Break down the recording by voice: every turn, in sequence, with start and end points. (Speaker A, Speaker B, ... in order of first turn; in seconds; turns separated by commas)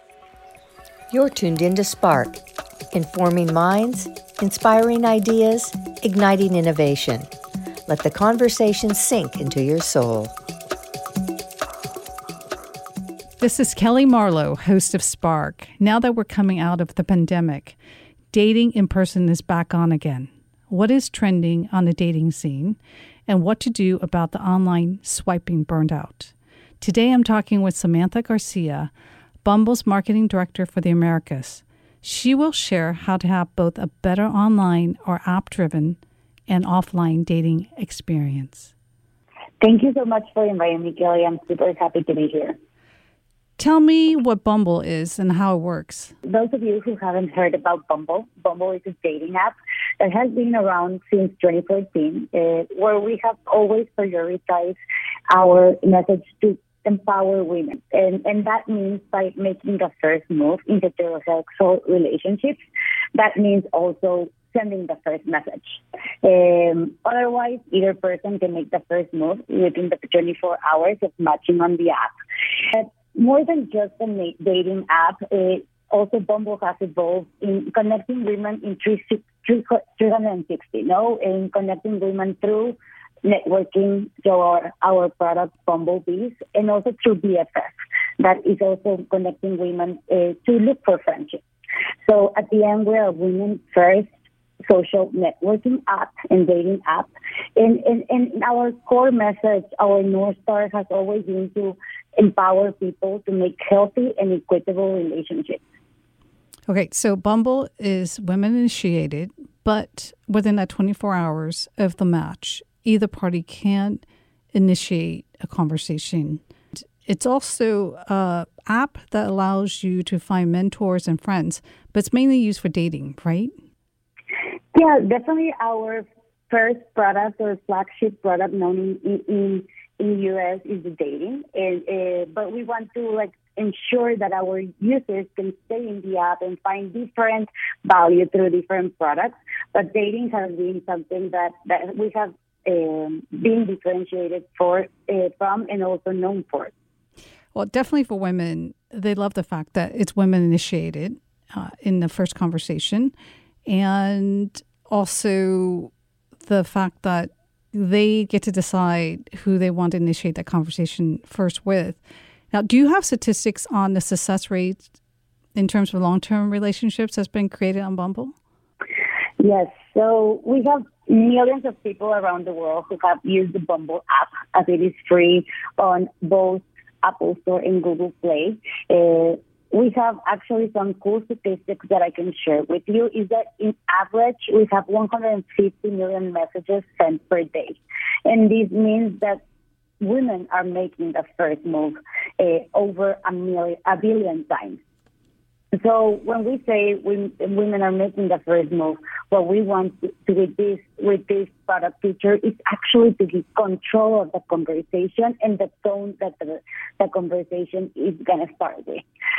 Speaker A: 1.1-2.4, Speaker A: 2.9-7.3, Speaker A: 7.8-10.3, Speaker B: 13.4-17.8, Speaker B: 18.3-28.9, Speaker B: 29.4-38.7, Speaker C: 39.6-42.5, Speaker B: 43.6-46.1, Speaker C: 46.2-54.8, Speaker C: 55.3-62.6, Speaker C: 63.1-72.1, Speaker C: 72.6-91.4, Speaker C: 92.0-94.1, Speaker C: 94.7-105.6, Speaker B: 106.7-114.0, Speaker B: 114.5-123.5, Speaker C: 124.7-146.7, Speaker B: 147.5-153.1, Speaker B: 153.7-155.9, Speaker B: 156.4-162.0, Speaker B: 162.5-164.8, Speaker B: 165.5-168.3, Speaker C: 169.4-189.4, Speaker C: 190.0-194.8, Speaker C: 195.7-209.0